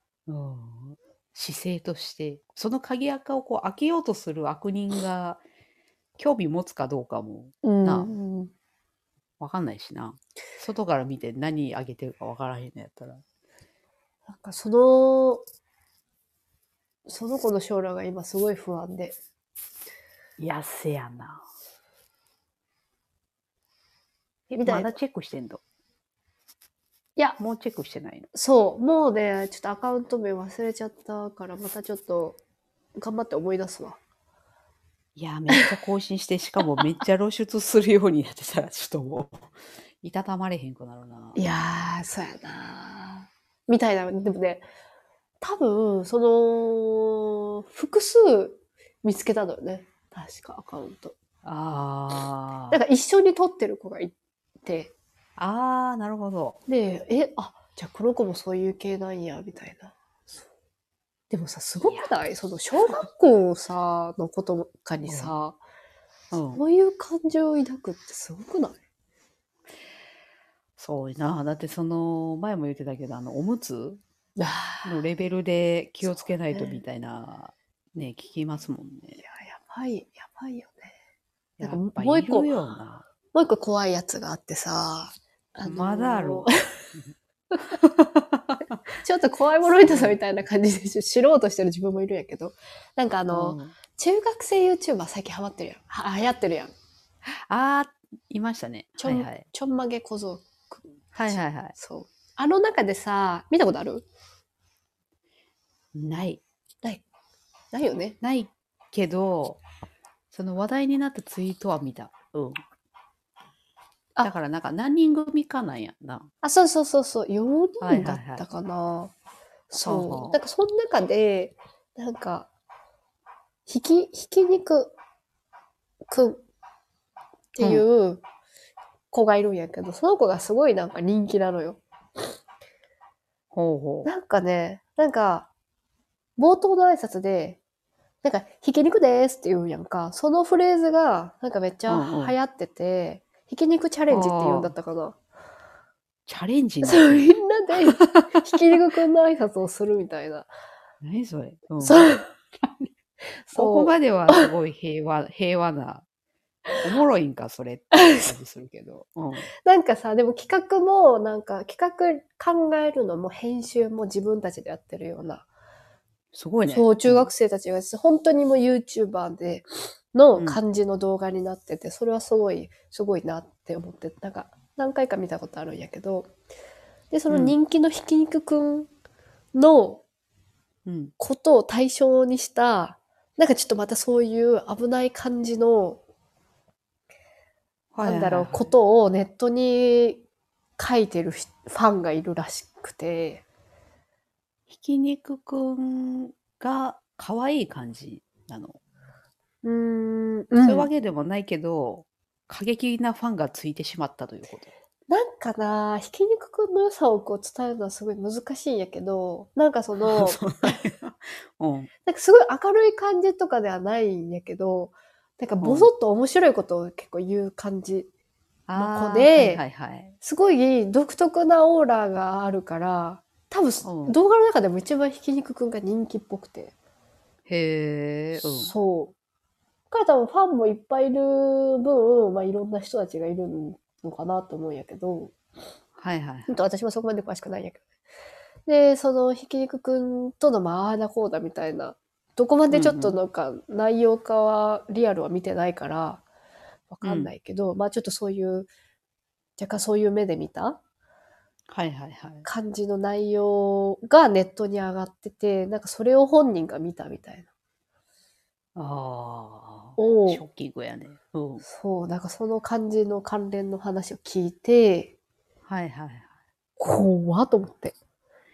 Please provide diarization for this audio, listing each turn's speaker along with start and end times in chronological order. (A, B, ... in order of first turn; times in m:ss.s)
0:00.3-0:05.4 A
0:06.2-0:08.1 A
0:07.6-0:08.5 B
0:09.4-0:13.2 A
0:14.3-0:15.4 B
0:17.1-0:19.2 B
0:20.4-0:21.4 A
0:24.5-0:25.0 B
0:24.6-0:25.6 A
0:27.4-0:28.3 A
0:28.3-0:32.4 B
0:33.0-0:34.0 B
0:35.2-0:39.5 A
0:40.0-0:41.4 A
0:41.4-0:44.6 B
0:45.4-0:51.2 B
0:51.4-0:52.8 A
0:52.7-0:54.9 B
0:55.4-0:56.6 A
0:56.7-0:59.9 B
1:01.3-1:05.6 B
1:01.8-1:02.1 A
1:05.0-1:05.3 A
1:06.3-1:06.6 A
1:06.5-1:08.8 B
1:10.8-1:14.0 A
1:14.4-1:15.0 B
1:14.8-1:19.2 A
1:16.0-1:16.8 B
1:19.2-1:20.9 B
1:21.6-1:23.0 A
1:21.6-1:22.5 B
1:23.3-1:26.5 B
1:25.6-1:27.1 A
1:27.7-1:28.8 A
1:29.0-1:36.7 B
1:29.8-1:30.2 A
1:33.3-1:33.8 A
1:37.3-1:39.5 A
1:39.0-1:44.1 B
1:41.2-1:41.8 A
1:45.9-1:46.4 A
1:47.7-1:48.2 B
1:48.2-1:49.6 A
1:50.3-1:52.6 A
1:54.2-1:56.3 A
1:56.4-1:59.1 B
1:57.8-1:58.4 A
1:59.7-2:02.5 B
1:59.8-2:00.4 A
2:03.7-2:04.9 B
2:06.1-2:06.4 B
2:07.6-2:08.2 B
2:07.6-2:07.8 A
2:09.1-2:11.8 B
2:13.5-2:14.1 A
2:14.0-2:15.5 B
2:16.4-2:17.6 B
2:18.2-2:25.2 B
2:21.9-2:22.4 A
2:24.1-2:24.7 A
2:26.3-2:27.3 A
2:26.8-2:30.5 B
2:28.0-2:28.5 A
2:31.0-2:32.1 A
2:31.8-2:32.3 B
2:33.5-2:34.5 B
2:33.5-2:36.0 A
2:36.8-2:39.5 A
2:37.9-2:38.2 B
2:39.6-2:45.5 B
2:46.3-2:47.3 A
2:46.7-2:56.3 B
2:50.4-2:50.6 A
2:57.1-2:58.9 B
2:57.3-2:57.6 A
2:59.5-3:00.0 B
3:00.9-3:01.1 A
3:01.2-3:06.0 B
3:07.9-3:08.7 A
3:08.0-3:10.2 B
3:10.8-3:13.4 B
3:14.7-3:18.8 A
3:19.6-3:20.9 B
3:20.6-3:24.7 A
3:25.1-3:30.8 B
3:30.0-3:31.9 A
3:32.1-3:38.1 B
3:35.6-3:35.9 A
3:38.7-3:40.2 A
3:38.8-3:39.6 B
3:40.2-3:46.7 B
3:43.8-3:44.2 A
3:47.5-3:48.7 A
3:48.4-3:49.1 B
3:49.9-3:55.3 B
3:56.0-3:56.5 A
3:56.5-3:57.8 B
3:58.7-4:06.2 B
4:02.7-4:03.2 A
4:06.9-4:08.7 B
4:07.0-4:07.3 A
4:09.6-4:10.8 B
4:11.7-4:12.5 A
4:12.4-4:17.5 B
4:18.8-4:21.6 A
4:20.0-4:20.4 B
4:21.6-4:25.1 B
4:25.7-4:26.3 A
4:26.8-4:28.0 B